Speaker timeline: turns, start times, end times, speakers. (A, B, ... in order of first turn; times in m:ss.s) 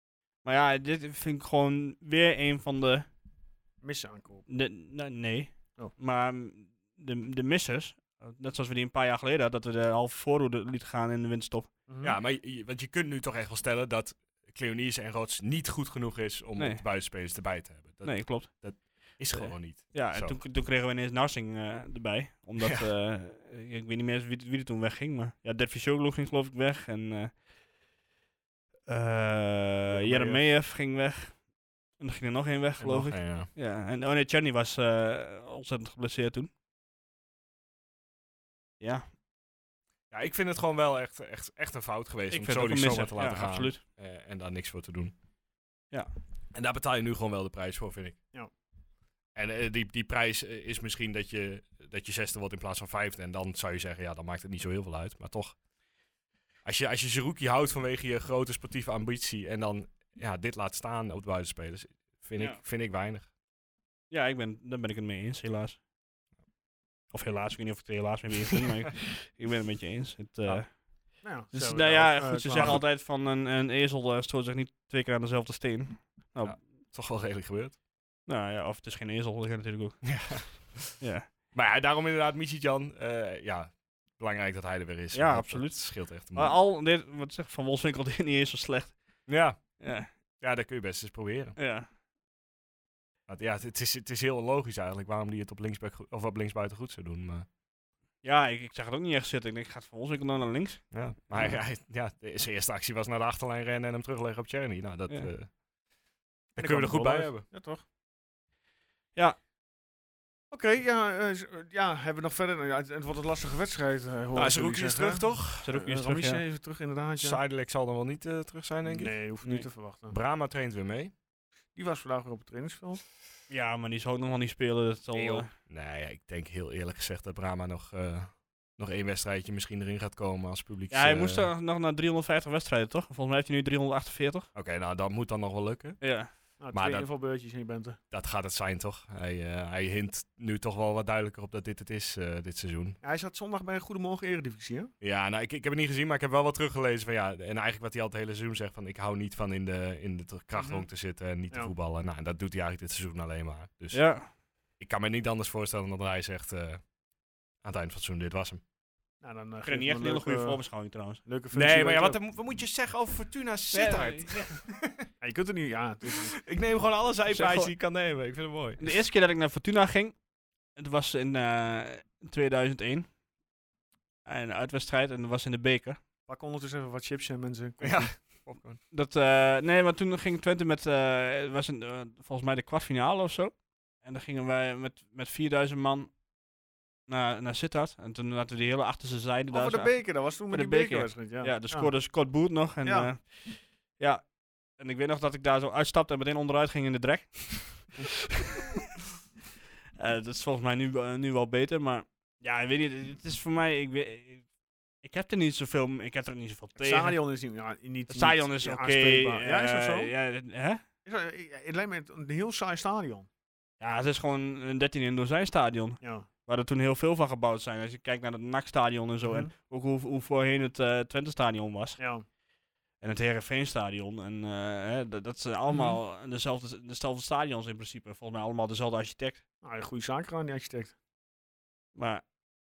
0:00.4-0:03.1 A
0:03.8-0:04.4 B
0:04.5-0:11.7 A
0:11.9-0:12.2 B
0:12.0-0:20.4 C
0:16.6-0:16.8 A
0:18.0-0:27.4 A
0:22.6-0:22.8 C
0:28.9-0:36.5 A
0:29.9-0:30.4 C
0:32.8-0:33.5 C
0:38.8-0:39.1 A
0:40.1-0:45.1 C
0:42.3-0:43.8 A
0:46.5-0:48.2 C
0:49.3-0:55.6 C
0:56.6-1:03.3 C
1:04.1-1:05.8 A
1:07.1-1:10.8 A
1:11.2-1:12.8 B
1:11.5-1:16.6 A
1:12.5-1:12.8 C
1:16.4-1:17.7 C
1:18.3-1:21.3 A
1:20.0-1:21.0 C
1:21.5-1:26.6 C
1:25.1-1:29.1 A
1:29.3-1:29.8 C
1:29.8-1:30.1 A
1:30.4-1:31.6 C
1:31.6-1:31.9 A
1:33.3-1:37.4 C
1:38.2-1:41.6 A
1:40.9-1:45.5 C
1:46.5-1:47.4 C
1:46.6-1:47.8 B
1:50.5-1:57.4 B
1:54.3-1:55.7 C
1:55.6-1:56.4 A
1:57.2-1:59.2 C
1:58.8-2:00.1 B
2:00.1-2:01.1 C
2:01.7-2:03.0 B
2:03.5-2:05.5 A
2:05.2-2:05.4 B
2:05.2-2:11.5 C
2:10.9-2:14.5 A
2:14.5-2:16.1 C
2:16.0-2:16.3 A
2:16.6-2:18.0 B
2:16.7-2:17.1 C
2:18.1-2:23.0 C
2:23.0-2:24.9 B
2:25.0-2:34.1 C
2:30.6-2:30.9 B
2:33.9-2:34.3 A
2:34.8-2:36.8 C
2:37.6-2:38.6 C
2:39.2-2:40.6 B
2:39.6-2:41.2 A
2:41.2-2:42.2 B
2:41.5-2:45.1 C
2:43.7-2:44.5 A
2:45.2-2:46.4 B
2:46.3-2:48.9 C
2:47.3-2:47.7 A
2:48.8-2:50.2 A
2:50.7-2:53.1 A
2:54.2-2:56.0 A
2:56.2-2:58.2 B
2:57.8-2:58.8 C
2:58.9-3:06.2 A
3:07.1-3:18.7 A
3:09.5-3:12.1 B
3:12.8-3:13.1 B
3:20.0-3:24.5 A
3:25.0-3:27.2 A
3:26.8-3:30.1 B
3:28.1-3:30.8 A
3:31.0-3:33.3 B
3:33.8-3:42.0 A
3:36.0-3:36.3 B
3:39.2-3:39.5 B
3:42.0-3:42.2 B
3:43.0-3:49.4 A
3:45.7-3:46.0 B
3:49.6-3:50.9 B
3:51.9-3:52.2 A